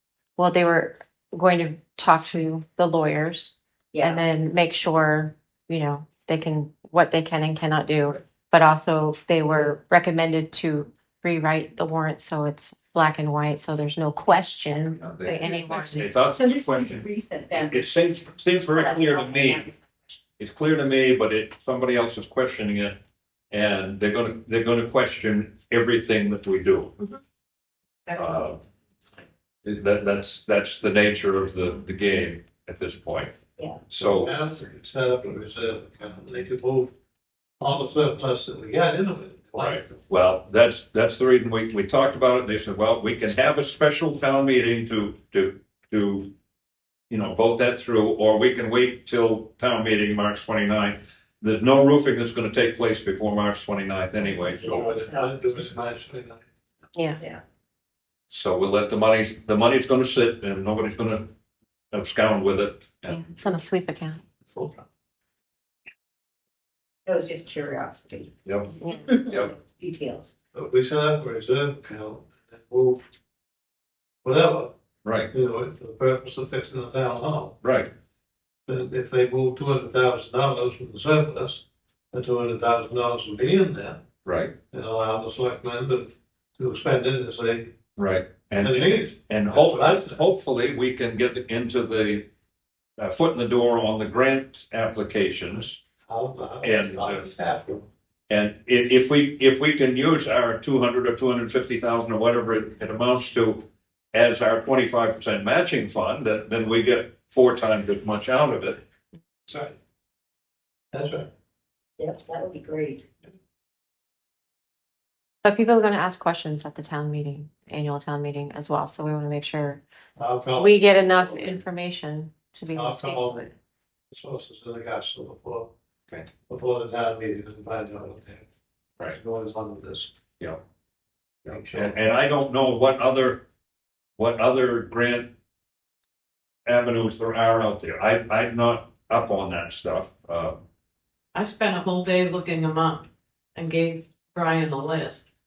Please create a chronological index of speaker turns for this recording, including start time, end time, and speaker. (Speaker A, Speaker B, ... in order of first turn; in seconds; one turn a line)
Speaker A: 0.4-16.1
Speaker B: 3.9-4.3
Speaker C: 15.0-19.7
Speaker B: 15.2-20.2
Speaker C: 20.4-23.0
Speaker C: 23.5-27.0
Speaker D: 28.1-28.4
Speaker C: 28.1-28.6
Speaker C: 29.6-33.4
Speaker C: 33.9-34.3
Speaker E: 34.0-36.9
Speaker E: 37.6-40.0
Speaker C: 39.6-46.3
Speaker C: 47.1-55.0
Speaker E: 54.6-56.5
Speaker B: 54.9-55.3
Speaker C: 58.3-61.3
Speaker C: 61.9-63.3
Speaker A: 63.1-64.2
Speaker E: 64.5-64.8
Speaker B: 67.1-70.3
Speaker C: 68.5-68.7
Speaker E: 70.5-73.1
Speaker E: 74.2-74.8
Speaker C: 75.0-75.3
Speaker E: 75.3-77.6
Speaker C: 77.6-77.9
Speaker E: 78.7-84.0
Speaker C: 84.2-84.5
Speaker E: 84.7-87.7
Speaker C: 88.0-92.3
Speaker E: 88.5-90.2
Speaker C: 93.0-95.8
Speaker E: 96.1-97.9
Speaker C: 96.6-97.3
Speaker C: 98.3-108.8
Speaker E: 109.5-109.8
Speaker E: 110.9-111.3
Speaker B: 112.0-113.0
Speaker A: 115.4-119.8
Speaker E: 120.2-121.6
Speaker A: 120.6-123.5
Speaker E: 122.7-123.5
Speaker E: 124.1-125.7
Speaker E: 126.5-128.5
Speaker E: 129.0-130.1
Speaker E: 131.5-132.0
Speaker C: 131.5-133.4
Speaker C: 134.2-135.3
Speaker C: 136.7-140.6
Speaker D: 141.3-145.3